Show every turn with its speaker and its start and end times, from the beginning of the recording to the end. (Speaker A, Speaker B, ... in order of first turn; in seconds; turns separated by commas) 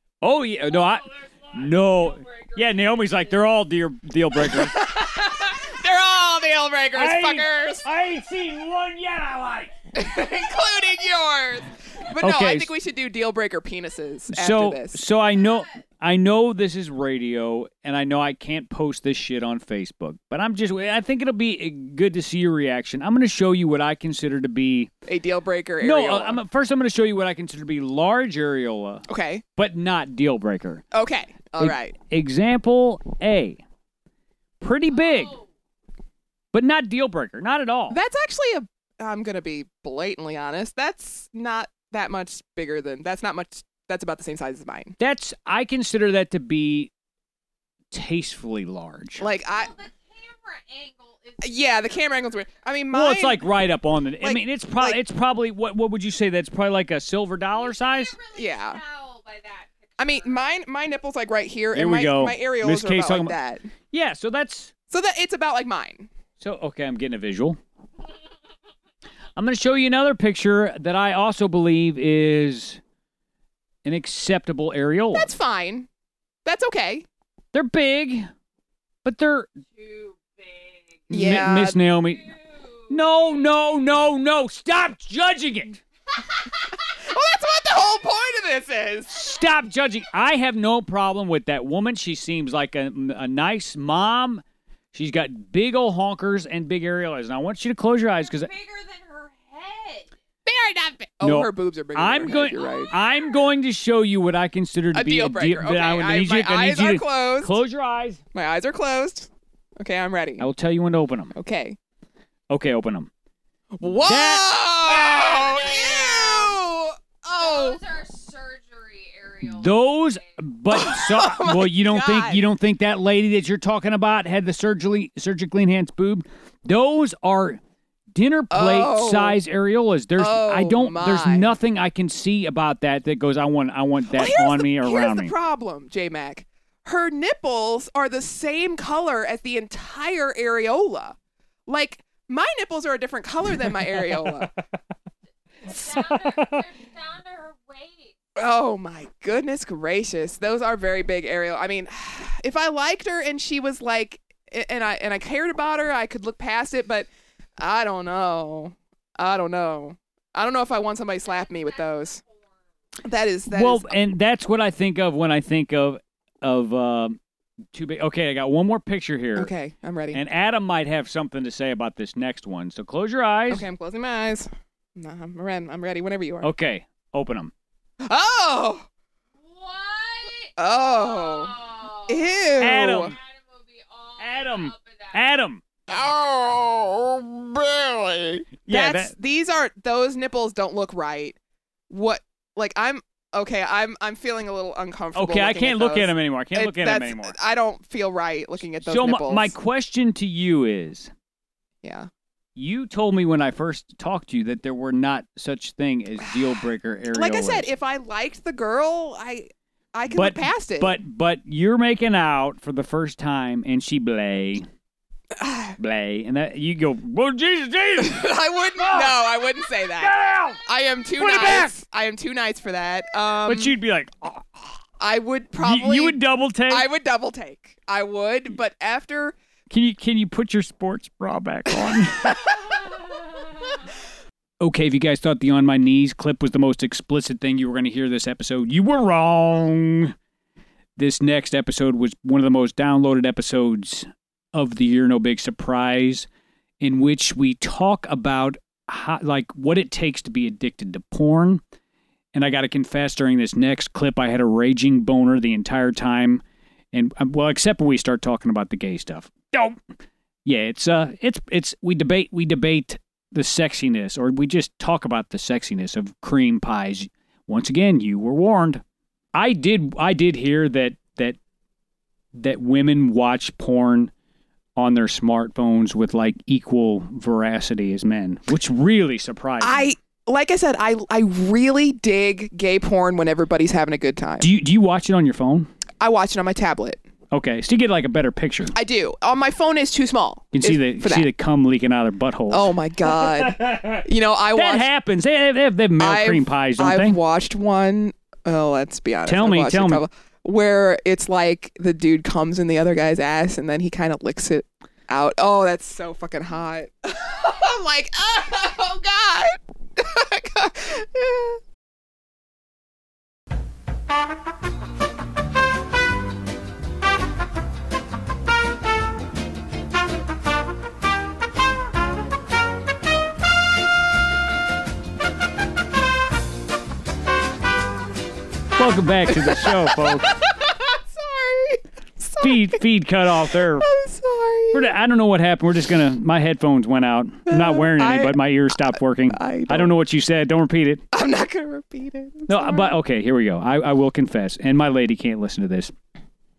Speaker A: 0.2-4.8, Speaker B: 0.7-3.4, Speaker C: 4.4-7.8, Speaker A: 6.9-9.7, Speaker C: 9.9-15.0, Speaker A: 12.2-12.7, Speaker A: 14.3-24.9, Speaker C: 25.1-26.4, Speaker A: 25.8-29.1, Speaker C: 29.1-29.4, Speaker A: 29.6-30.9, Speaker C: 30.9-31.9, Speaker A: 31.6-33.6, Speaker A: 34.6-35.4, Speaker B: 34.9-35.5, Speaker A: 36.5-38.0, Speaker C: 37.9-45.0, Speaker A: 45.0-46.9, Speaker A: 47.9-49.2, Speaker C: 49.2-49.7, Speaker B: 49.4-52.6, Speaker C: 51.4-53.4, Speaker A: 52.9-58.2, Speaker C: 54.2-55.0, Speaker B: 57.4-60.5, Speaker C: 58.3-58.8, Speaker C: 60.0-63.7, Speaker A: 61.7-63.4, Speaker A: 63.9-64.7, Speaker C: 64.9-66.1, Speaker A: 66.4-67.6, Speaker A: 69.4-72.8, Speaker A: 73.8-75.3, Speaker C: 75.1-75.9, Speaker C: 76.5-77.1, Speaker A: 77.5-78.3, Speaker A: 79.0-79.5, Speaker B: 79.8-81.2, Speaker C: 81.1-81.8, Speaker A: 81.1-82.3, Speaker B: 81.9-83.8, Speaker A: 82.9-85.8, Speaker C: 87.1-89.2, Speaker A: 89.1-98.5, Speaker B: 98.2-100.1, Speaker C: 100.5-102.9, Speaker A: 101.2-108.2, Speaker B: 102.3-103.5, Speaker C: 104.9-107.5, Speaker C: 108.3-109.3, Speaker C: 109.8-110.5, Speaker A: 110.4-111.3, Speaker C: 111.3-111.8, Speaker A: 112.5-113.1, Speaker C: 113.8-117.8, Speaker A: 113.8-114.6, Speaker B: 114.8-116.6, Speaker B: 117.4-120.3, Speaker A: 119.4-127.6, Speaker C: 120.7-122.4, Speaker A: 128.1-135.3, Speaker C: 128.5-129.4, Speaker C: 130.2-131.5, Speaker C: 134.1-141.2, Speaker C: 141.7-144.5, Speaker A: 144.0-144.5, Speaker B: 145.7-148.2, Speaker A: 146.0-146.6, Speaker C: 148.4-157.1, Speaker C: 157.6-162.2, Speaker B: 161.2-162.5, Speaker C: 163.0-163.9, Speaker A: 163.5-167.2, Speaker A: 167.7-169.5, Speaker C: 169.4-170.2, Speaker A: 170.1-173.7, Speaker C: 173.5-176.5, Speaker A: 176.4-177.5, Speaker C: 178.0-178.8, Speaker B: 179.4-185.2, Speaker C: 180.6-181.6, Speaker C: 182.1-183.1, Speaker A: 182.6-183.2, Speaker A: 184.2-185.6, Speaker C: 185.9-191.4, Speaker A: 188.7-189.1, Speaker C: 191.9-199.5, Speaker A: 195.2-197.4, Speaker A: 198.9-201.1, Speaker C: 201.8-202.1, Speaker A: 202.6-207.7, Speaker C: 207.1-210.9, Speaker A: 210.1-214.7, Speaker C: 215.4-215.8, Speaker A: 215.8-219.4, Speaker C: 218.0-223.7, Speaker A: 220.0-220.6, Speaker A: 221.2-221.7, Speaker A: 223.5-224.6, Speaker C: 225.0-226.2, Speaker A: 225.6-226.9, Speaker C: 226.7-229.4, Speaker A: 229.7-232.4, Speaker A: 234.6-240.1, Speaker A: 241.0-246.3, Speaker A: 246.8-251.6, Speaker A: 252.3-256.4, Speaker A: 256.9-259.8, Speaker A: 260.4-268.8, Speaker A: 269.3-271.4, Speaker A: 272.4-274.1, Speaker A: 274.8-279.9, Speaker C: 279.6-284.5, Speaker A: 284.4-285.7, Speaker C: 286.0-287.0, Speaker A: 287.3-288.7, Speaker C: 288.8-291.3, Speaker A: 290.5-294.0, Speaker C: 292.5-294.9, Speaker A: 294.5-297.2, Speaker C: 296.0-311.6, Speaker A: 299.3-300.0, Speaker A: 328.8-330.3, Speaker C: 329.4-332.8, Speaker A: 332.4-333.9, Speaker C: 333.8-334.9, Speaker A: 334.7-341.0, Speaker C: 337.5-340.0, Speaker C: 341.1-342.9, Speaker A: 342.5-345.9